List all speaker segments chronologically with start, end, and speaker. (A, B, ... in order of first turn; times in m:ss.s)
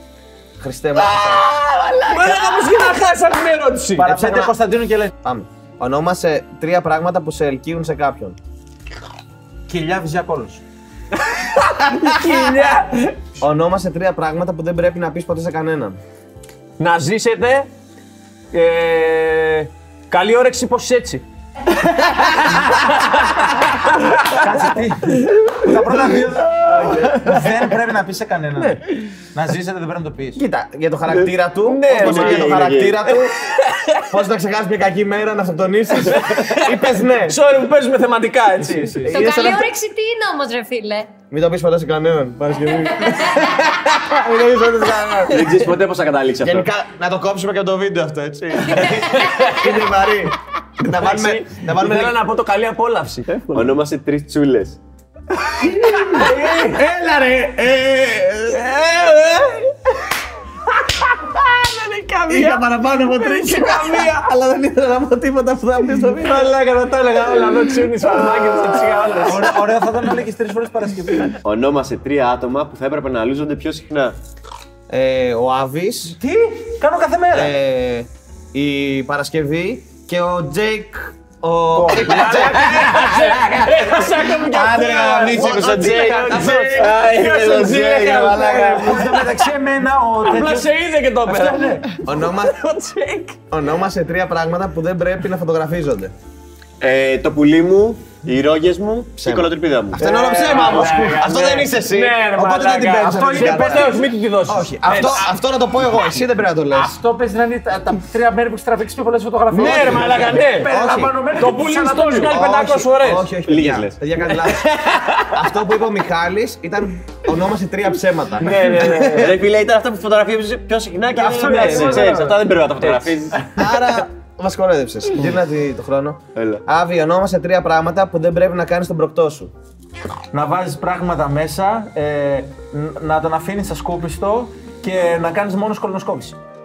0:00.6-0:01.5 A
0:01.0-0:04.1 B
0:04.0-0:05.1 C
0:04.0-0:04.6 A
0:05.2-0:08.4 A
0:09.7-0:10.6 C
0:11.2-0:13.2 B
0:13.4-0:16.0 A
0:16.8-0:17.7 B
0:18.5-0:21.2 B
0:21.8-0:24.4 B
0:24.3-0:28.8 C
0:26.7-0:27.4 A
0:28.6-0:28.8 B
0:29.3-0:30.4 C
0:30.4-0:33.3 A
0:31.6-0:34.1 B
0:31.9-0:33.1 D
0:34.1-0:37.4 A
0:36.0-0:39.0 B
0:38.6-0:39.3 C
0:39.0-0:39.7 A
0:39.1-0:41.1 E
0:41.3-0:45.5 A
0:43.0-0:43.4 E
0:45.3-0:46.7 D
0:46.4-0:52.2 A
0:49.2-0:49.8 B
0:50.8-0:53.8 B
0:53.5-0:54.8 D
0:55.6-0:58.7 A
0:55.9-0:56.9 B
0:58.5-0:59.7 B
1:00.7-1:04.2 B
1:02.3-1:06.5 A
1:06.1-1:09.7 B
1:09.2-1:11.4 C
1:11.4-1:14.2 D
1:14.9-1:16.2 A
1:16.1-1:17.6 C
1:17.3-1:24.0 A
1:21.7-1:23.5 C
1:21.9-1:29.5 B
1:24.4-1:27.1 C
1:24.5-1:26.9 A
1:26.4-1:28.7 D
1:27.6-1:30.7 C
1:30.2-1:33.4 B
1:31.2-1:31.9 C
1:32.0-1:32.6 A
1:33.5-1:36.1 A
1:36.8-1:40.7 D
1:39.2-1:47.0 A
1:40.0-1:45.3 B
1:42.6-1:44.1 C
1:46.7-1:52.4 C
1:49.5-1:50.7 B
1:50.6-1:51.2 A
1:51.4-1:53.3 B
1:52.3-1:59.4 A
1:53.4-1:54.0 D
1:54.4-1:55.4 B
1:58.4-1:59.4 B
1:58.7-2:03.5 D
2:01.2-2:02.4 C
2:01.2-2:03.2 B
2:03.6-2:09.5 A
2:06.4-2:06.6 D
2:10.3-2:16.4 C